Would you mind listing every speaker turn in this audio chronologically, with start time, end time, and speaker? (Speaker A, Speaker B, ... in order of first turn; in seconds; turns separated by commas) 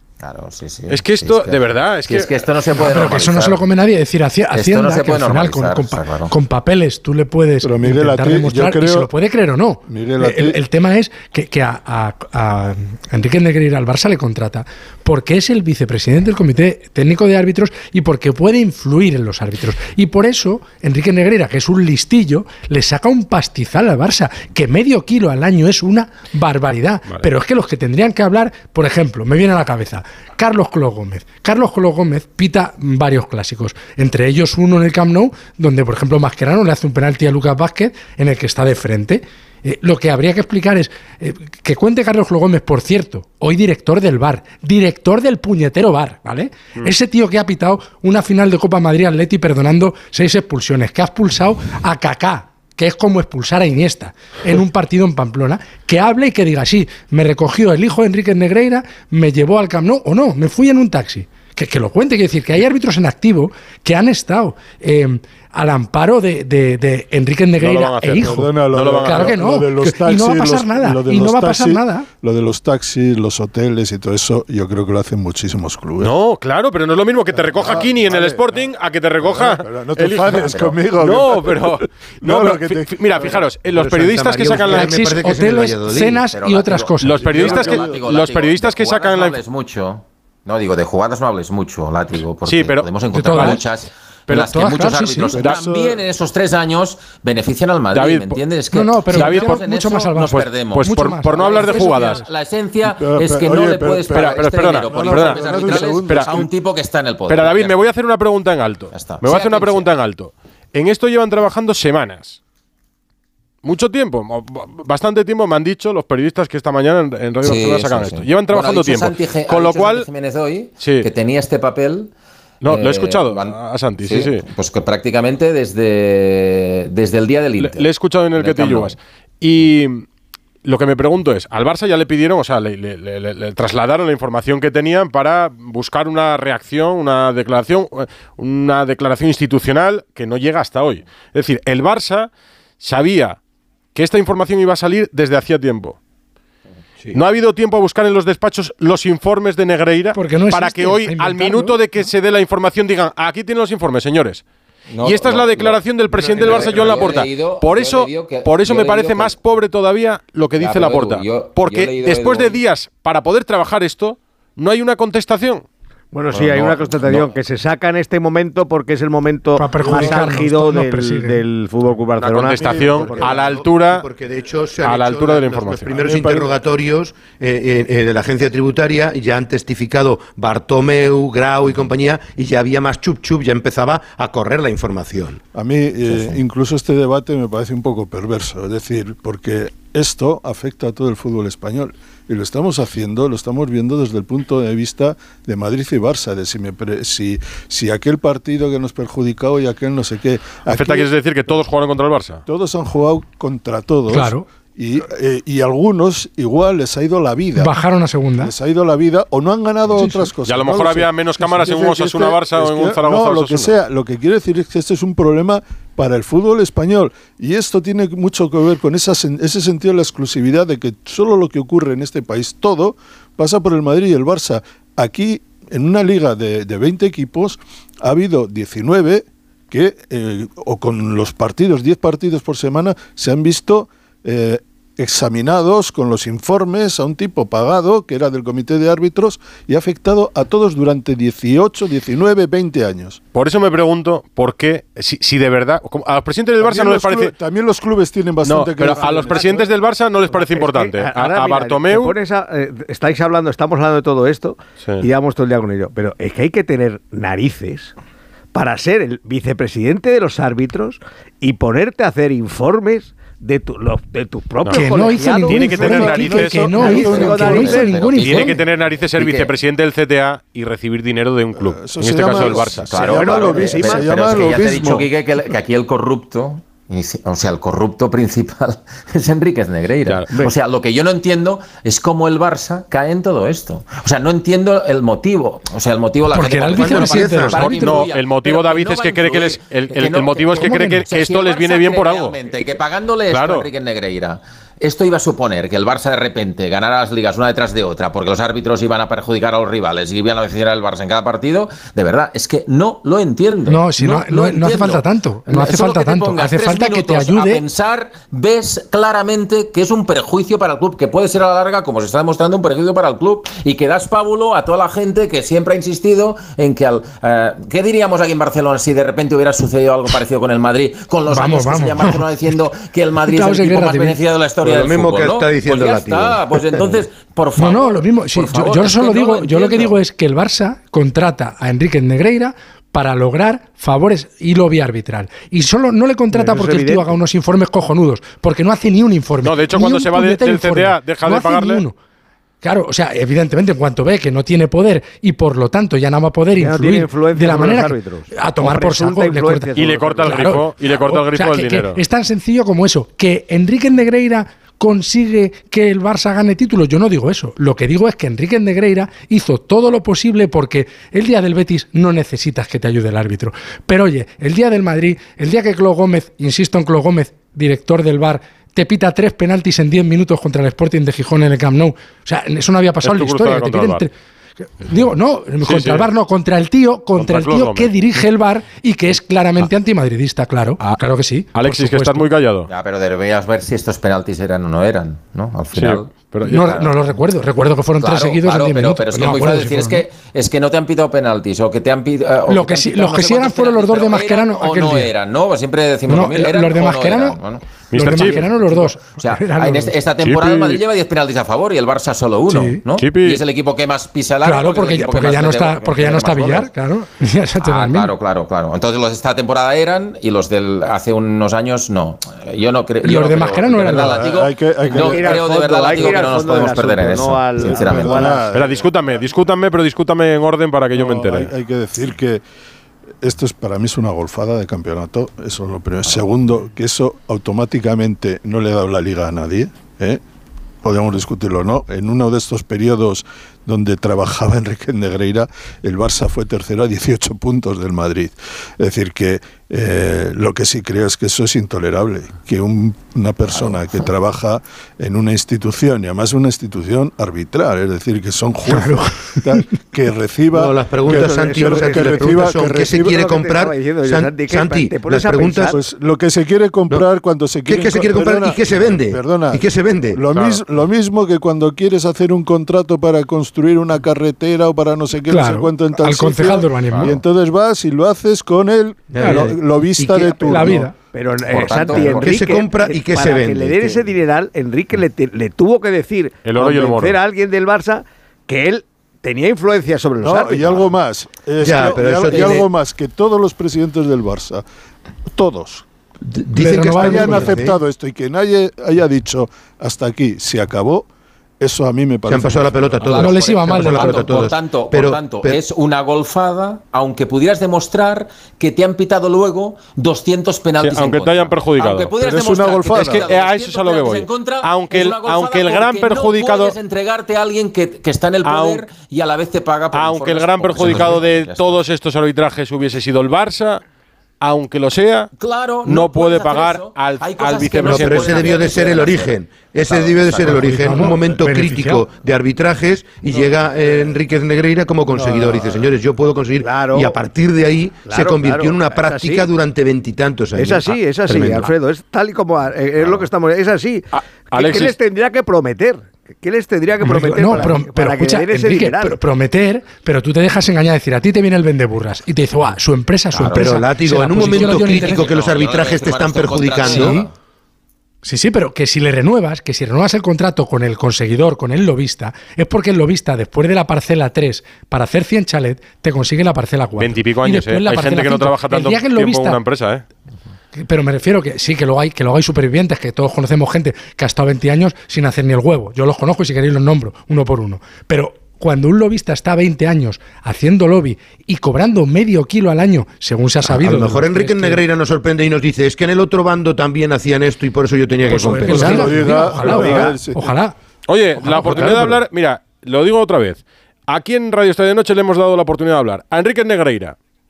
Speaker A: 0.2-3.6, Speaker B: 0.9-2.5, Speaker C: 2.8-72.1, Speaker A: 4.5-6.3, Speaker D: 7.6-9.1, Speaker D: 9.9-10.6, Speaker B: 67.6-69.3, Speaker D: 68.2-76.1, Speaker B: 76.0-85.2, Speaker D: 77.3-78.7, Speaker D: 79.2-83.5, Speaker A: 80.4-80.7, Speaker E: 83.7-86.2, Speaker C: 84.7-87.2, Speaker A: 86.3-107.8, Speaker B: 87.0-89.4, Speaker D: 87.2-88.0, Speaker B: 92.4-93.6, Speaker C: 93.1-93.7, Speaker C: 94.3-95.5, Speaker D: 95.3-96.0, Speaker B: 97.9-98.4, Speaker C: 98.7-102.3, Speaker B: 99.1-102.2, Speaker D: 102.9-106.5, Speaker B: 104.1-106.4, Speaker B: 107.3-112.4, Speaker A: 108.9-109.9, Speaker B: 113.6-120.1, Speaker A: 117.4-122.1, Speaker B: 120.8-121.1, Speaker B: 122.6-124.5, Speaker A: 122.7-129.0, Speaker B: 127.6-130.1, Speaker B: 130.7-142.3, Speaker B: 142.8-143.4, Speaker B: 143.9-146.0, Speaker B: 147.1-154.4, Speaker C: 150.2-152.1, Speaker A: 154.9-159.4, Speaker B: 155.0-165.6, Speaker A: 160.6-162.6, Speaker F: 166.1-173.5, Speaker A: 166.3-167.3, Speaker C: 169.6-171.4, Speaker D: 169.9-170.3, Speaker B: 172.2-174.1, Speaker E: 172.6-185.4, Speaker B: 174.8-176.0, Speaker D: 175.9-176.6, Speaker D: 185.5-201.1, Speaker B: 200.7-202.4, Speaker D: 202.5-207.7, Speaker C: 204.1-204.4, Speaker C: 207.6-208.5, Speaker D: 208.4-243.2, Speaker C: 210.0-210.3, Speaker B: 210.5-213.7, Speaker B: 243.3-247.3, Speaker D: 246.6-249.6, Speaker B: 248.4-252.2, Speaker F: 248.9-249.7, Speaker F: 250.3-257.9, Speaker F: 258.5-268.2, Speaker C: 264.7-268.6, Speaker B: 265.4-267.6, Speaker D: 265.5-267.7, Speaker A: 267.1-268.7, Speaker B: 268.1-273.2, Speaker A: 269.2-269.5, Speaker D: 271.6-275.1, Speaker A: 272.3-330.0, Speaker F: 272.4-274.5, Speaker B: 280.1-280.4, Speaker C: 286.3-288.1, Speaker E: 286.9-287.5, Speaker B: 287.4-292.6, Speaker C: 290.6-291.0, Speaker B: 293.3-293.7, Speaker C: 303.7-307.6, Speaker C: 321.3-322.3, Speaker C: 323.3-324.2, Speaker E: 324.6-327.0, Speaker C: 327.6-342.0, Speaker F: 336.3-337.1, Speaker B: 339.4-341.8, Speaker C: 342.6-382.3, Speaker F: 346.6-350.5, Speaker B: 349.8-352.0, Speaker B: 373.0-374.1, Speaker B: 375.6-376.1, Speaker B: 377.2-377.9, Speaker B: 380.8-382.7, Speaker A: 382.7-387.1, Speaker B: 385.7-386.8, Speaker C: 386.5-390.1, Speaker A: 388.0-406.7, Speaker C: 392.5-395.1, Speaker C: 396.1-397.4, Speaker B: 397.9-398.6, Speaker C: 397.9-399.9, Speaker B: 400.2-400.8, Speaker C: 402.5-402.8, Speaker B: 403.0-403.4, Speaker C: 404.4-408.1, Speaker A: 407.6-418.2, Speaker C: 413.0-414.2, Speaker D: 413.9-415.4, Speaker F: 414.9-418.5, Speaker D: 417.6-419.3, Speaker B: 418.5-421.5, Speaker D: 420.9-422.4, Speaker D: 423.2-430.2, Speaker D: 430.8-453.4, Speaker A: 443.5-444.0, Speaker C: 448.6-449.6, Speaker E: 450.5-455.8, Speaker F: 451.3-452.2, Speaker F: 453.1-455.8, Speaker D: 455.6-470.9, Speaker E: 457.6-460.2, Speaker B: 460.3-460.6, Speaker C: 465.3-467.2, Speaker E: 469.1-470.9, Speaker C: 469.2-469.5, Speaker C: 470.4-470.9, Speaker F: 471.1-480.9, Speaker A: 471.5-472.4, Speaker E: 471.7-474.0, Speaker B: 476.4-477.2, Speaker D: 480.2-484.6, Speaker E: 481.6-482.7, Speaker D: 485.3-485.9, Speaker E: 486.3-487.8, Speaker C: 486.5-487.6, Speaker D: 486.6-491.1, Speaker D: 491.6-493.2, Speaker E: 492.3-495.6, Speaker C: 493.1-494.3, Speaker A: 493.1-511.9, Speaker B: 500.8-502.1, Speaker D: 502.2-503.3, Speaker B: 502.9-506.8, Speaker B: 508.4-508.9, Speaker B: 509.9-513.8, Speaker B: 514.4-515.3, Speaker A: 515.4-520.7, Speaker B: 515.8-518.9, Speaker E: 517.8-531.7, Speaker C: 520.5-522.0, Speaker D: 520.8-521.3, Speaker D: 525.1-526.0, Speaker F: 526.6-527.2, Speaker F: 528.1-529.5, Speaker F: 530.6-539.2, Speaker A: 533.0-533.3, Speaker B: 534.1-535.0, Speaker C: 537.0-545.3, Speaker A: 543.3-543.8, Speaker E: 543.5-547.3, Speaker A: 544.4-547.3, Speaker C: 546.9-547.2, Speaker C: 548.2-559.6, Speaker B: 557.0-560.0, Speaker C: 560.7-574.8, Speaker E: 573.6-580.0, Speaker D: 578.3-580.5, Speaker C: 578.3-580.7, Speaker B: 581.1-587.2, Speaker D: 581.4-582.2, Speaker C: 581.4-582.1